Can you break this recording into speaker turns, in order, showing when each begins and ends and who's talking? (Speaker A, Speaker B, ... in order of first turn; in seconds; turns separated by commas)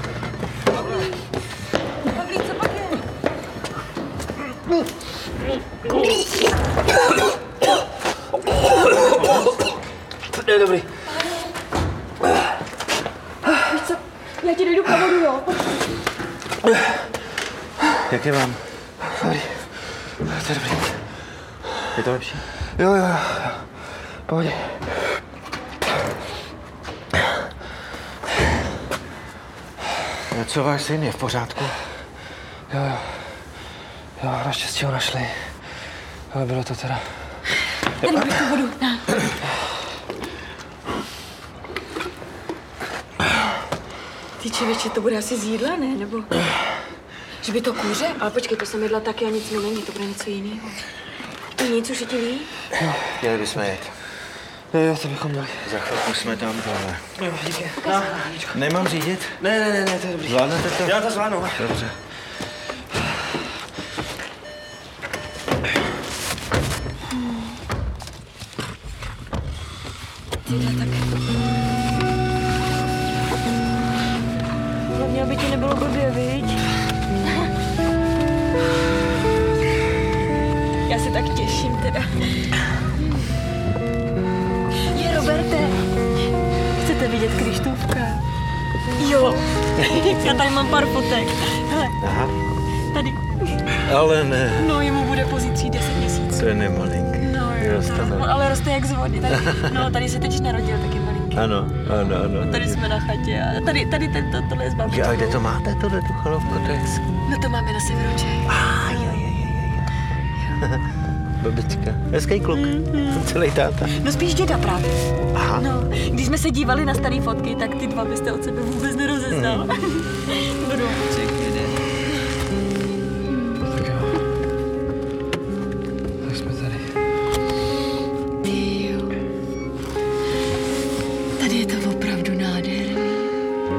Speaker A: 2.0-3.0, Speaker B: 10.3-10.8, Speaker A: 11.1-11.5, Speaker A: 13.5-15.7, Speaker C: 18.0-18.6, Speaker B: 19.1-19.6, Speaker B: 20.2-20.9, Speaker C: 21.9-22.5, Speaker B: 22.8-23.6, Speaker B: 24.3-24.8, Speaker C: 30.3-31.8, Speaker B: 32.7-33.1, Speaker B: 34.2-35.4, Speaker B: 36.3-37.1, Speaker A: 37.9-39.2, Speaker A: 44.4-46.3, Speaker A: 47.4-50.8, Speaker A: 51.6-52.5, Speaker C: 53.0-54.0, Speaker B: 54.7-55.8, Speaker C: 55.6-57.1, Speaker B: 57.2-58.6, Speaker A: 57.8-58.3, Speaker C: 58.5-59.4, Speaker B: 59.4-61.6, Speaker C: 60.2-62.0, Speaker A: 67.1-67.6, Speaker A: 70.4-71.1, Speaker A: 74.9-76.7, Speaker A: 80.8-82.3, Speaker A: 84.9-85.8, Speaker A: 86.7-88.2, Speaker A: 89.0-92.0, Speaker C: 92.0-92.3, Speaker A: 92.9-93.6, Speaker C: 93.8-94.7, Speaker A: 94.6-96.4, Speaker C: 96.3-98.3, Speaker A: 97.2-101.4, Speaker C: 99.3-99.8, Speaker C: 101.3-102.8, Speaker A: 102.3-105.4, Speaker C: 104.8-107.0, Speaker A: 107.2-109.3, Speaker C: 108.5-109.8, Speaker C: 111.4-113.9, Speaker A: 112.5-113.3, Speaker A: 113.9-115.0, Speaker C: 115.3-115.7, Speaker A: 115.5-121.2, Speaker C: 119.3-119.7, Speaker C: 121.1-121.7, Speaker A: 123.3-123.6, Speaker B: 123.6-124.2, Speaker B: 126.2-126.8, Speaker A: 128.4-129.1, Speaker A: 131.4-133.3